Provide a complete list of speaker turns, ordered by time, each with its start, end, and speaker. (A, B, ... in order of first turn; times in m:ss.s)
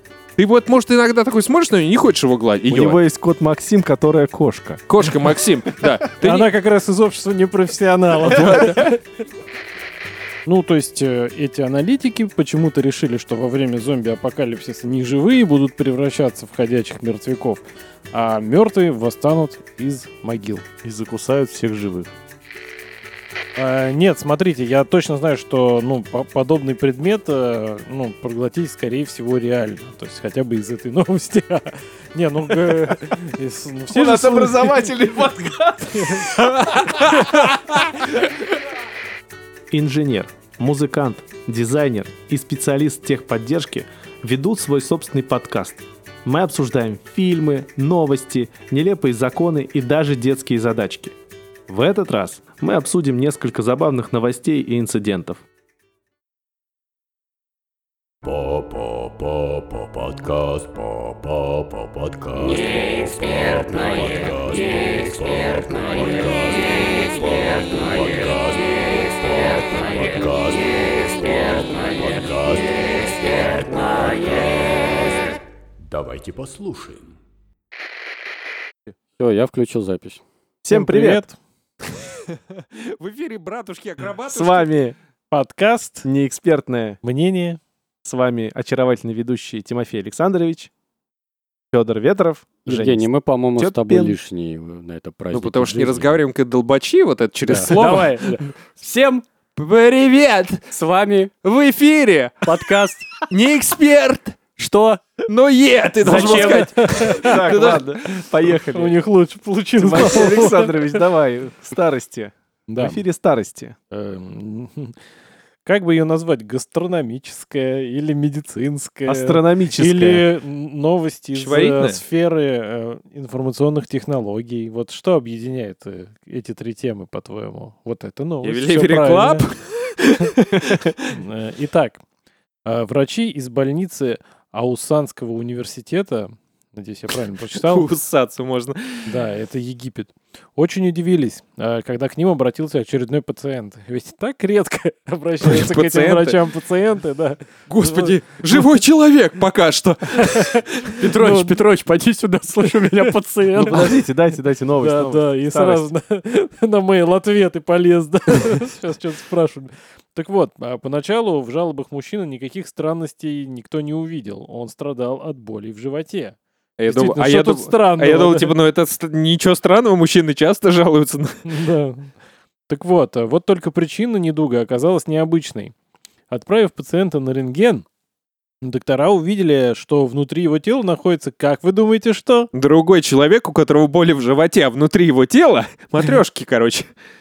0:00.4-0:03.0 A
0:02.7-0:04.8 B
0:04.9-0:06.5 A
0:06.2-0:09.0 C
0:08.3-0:08.9 A
0:10.5-0:20.7 C
0:20.8-0:22.1 B
0:23.6-0:35.0 C
0:33.9-0:36.3 B
0:35.9-0:36.3 C
0:36.5-0:37.8 A
0:37.0-0:37.5 C
0:39.7-0:51.2 B
0:51.7-0:55.4 B
0:58.2-1:17.1 D
1:19.2-1:20.2 E
1:20.6-1:21.2 B
1:20.7-1:21.4 C
1:22.8-1:24.7 A
1:24.3-1:25.0 B
1:25.3-1:26.1 C
1:26.0-1:27.0 B
1:27.0-1:27.6 C
1:28.0-1:30.7 B
1:31.7-1:34.2 B
1:32.7-1:36.2 E
1:35.3-1:38.2 A
1:37.4-1:39.2 E
1:39.6-1:40.7 A
1:40.7-1:41.3 E
1:41.4-1:42.5 A
1:42.4-1:43.2 E
1:43.3-1:44.4 A
1:44.6-1:45.2 E
1:45.3-1:47.9 A
1:46.0-1:46.7 E
1:46.1-1:47.5 C
1:47.1-1:49.0 B
1:48.7-1:51.0 C
1:49.8-1:53.8 B
1:52.7-1:53.0 C
1:53.9-1:55.0 C
1:55.6-2:09.5 C
1:59.1-2:00.2 B
2:01.3-2:02.0 A
2:08.4-2:11.1 A
2:11.1-2:12.0 C
2:12.6-2:17.9 C
2:17.5-2:19.1 A
2:19.1-2:28.7 C
2:25.4-2:26.4 A
2:27.7-2:30.9 A
2:30.4-2:31.6 C
2:30.9-2:33.8 E
2:32.6-2:33.8 C
2:33.6-2:35.8 B
2:34.8-2:46.4 C
2:46.8-2:51.4 A
2:46.9-2:48.6 C
2:51.4-2:52.1 C
2:52.7-2:55.7 C
2:56.3-2:57.8 C
2:58.6-3:02.5 C
3:02.5-3:06.9 A